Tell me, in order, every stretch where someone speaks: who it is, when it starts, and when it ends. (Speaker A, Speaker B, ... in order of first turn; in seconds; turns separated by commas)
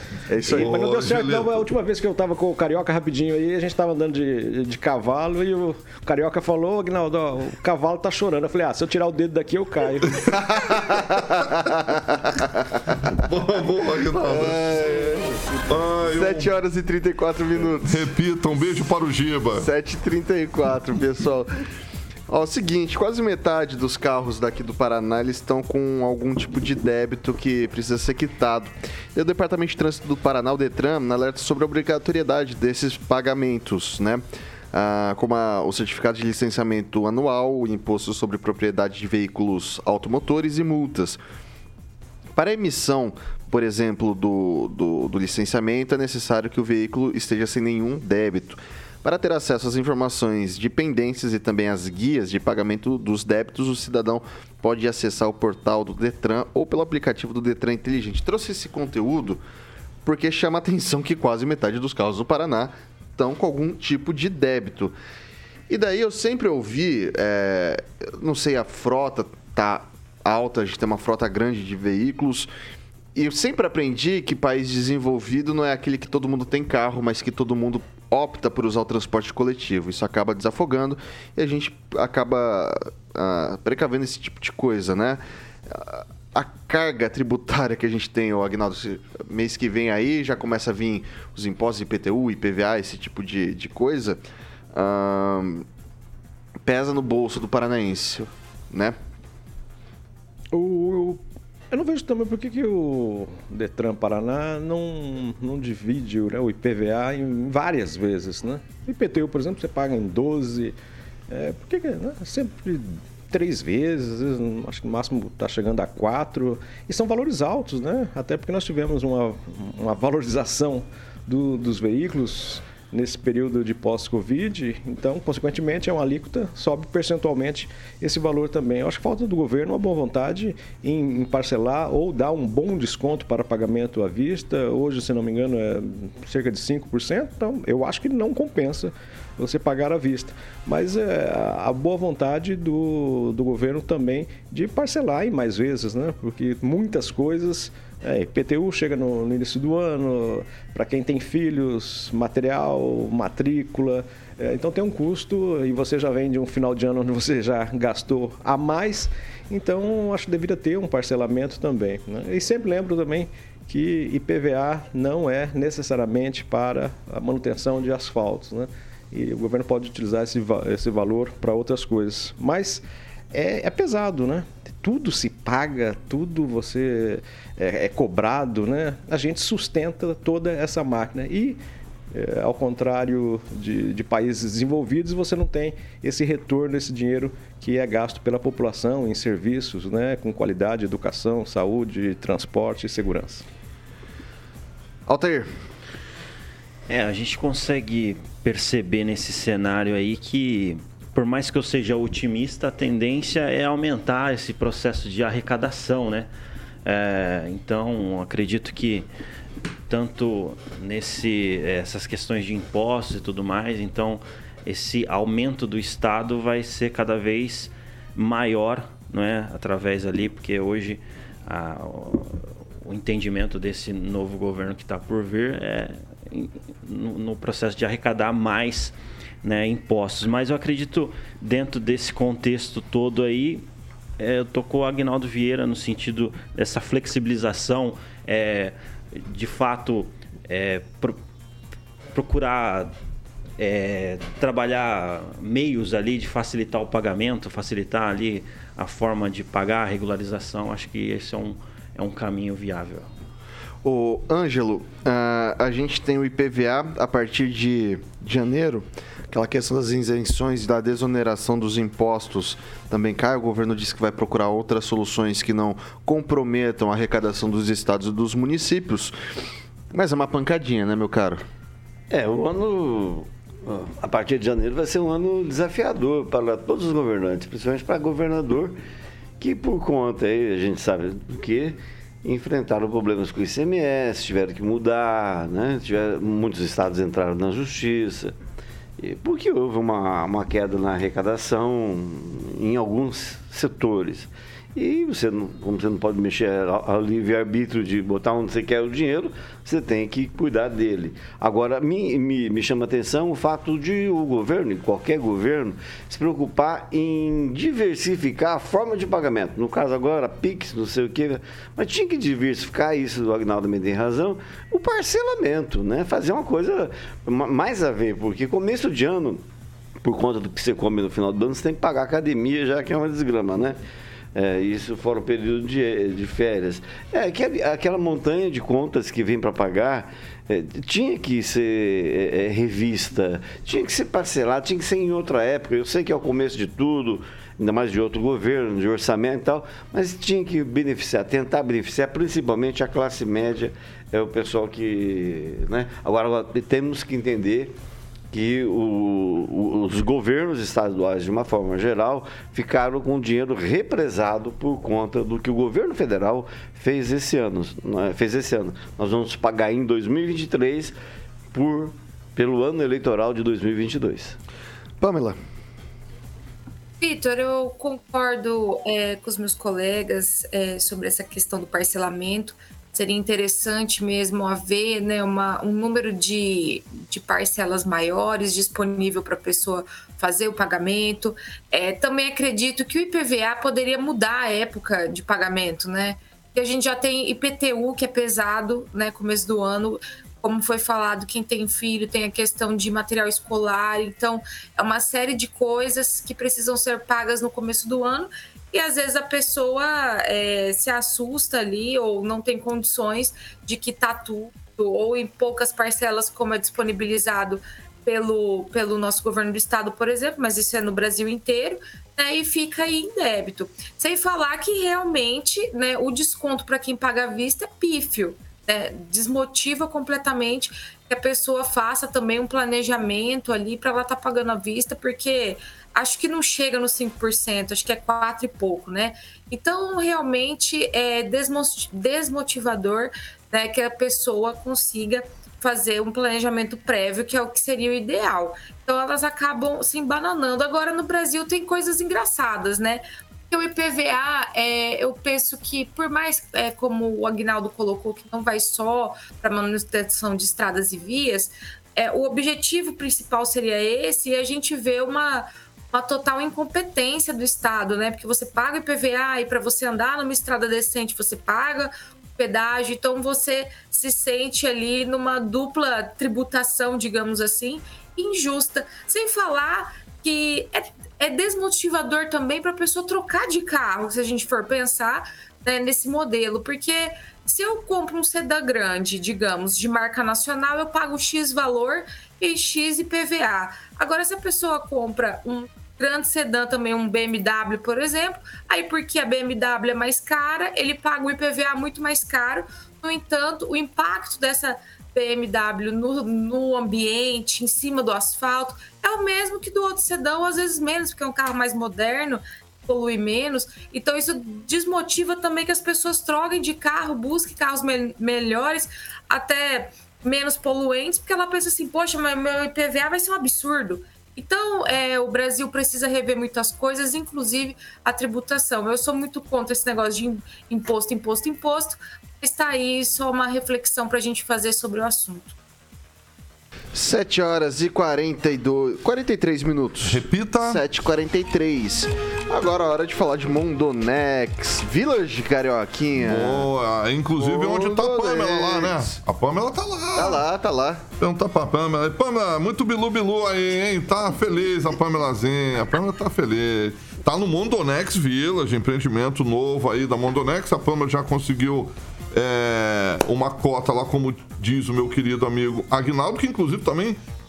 Speaker A: 0.3-0.8, Speaker B: 0.4-10.2, Speaker C: 0.5-1.5, Speaker A: 10.4-12.5, Speaker C: 13.0-15.1, Speaker A: 14.1-15.2, Speaker C: 15.7-16.5, Speaker A: 16.0-18.1, Speaker C: 17.9-19.7, Speaker A: 19.6-21.5, Speaker A: 22.3-41.2, Speaker A: 42.3-59.4, Speaker A: 60.0-64.9, Speaker A: 65.7-72.5, Speaker A: 73.1-94.2, Speaker A: 94.7-95.7, Speaker A: 96.6-99.0, Speaker B: 100.5-110.7, Speaker B: 111.3-181.6, Speaker B: 182.1-193.4, Speaker A: 195.1-195.5, Speaker D: 196.9-206.3, Speaker D: 206.8-209.1, Speaker D: 209.9-233.6, Speaker D: 234.2-241.2, Speaker D: 242.1-242.9, Speaker D: 243.6-253.1, Speaker A: 253.8-269.1, Speaker A: 269.9-271.4, Speaker E: 272.1-278.8, Speaker E: 279.4-288.3, Speaker E: 289.0-319.4, Speaker E: 320.0-323.8, Speaker E: 324.3-347.7, Speaker E: 348.3-360.9, Speaker E: 361.5-364.4, Speaker A: 365.0-365.4, Speaker F: 367.0-525.5, Speaker A: 526.9-536.7, Speaker C: 530.0-530.8, Speaker C: 536.2-540.4, Speaker A: 537.4-539.2, Speaker A: 540.1-541.0, Speaker C: 541.2-557.2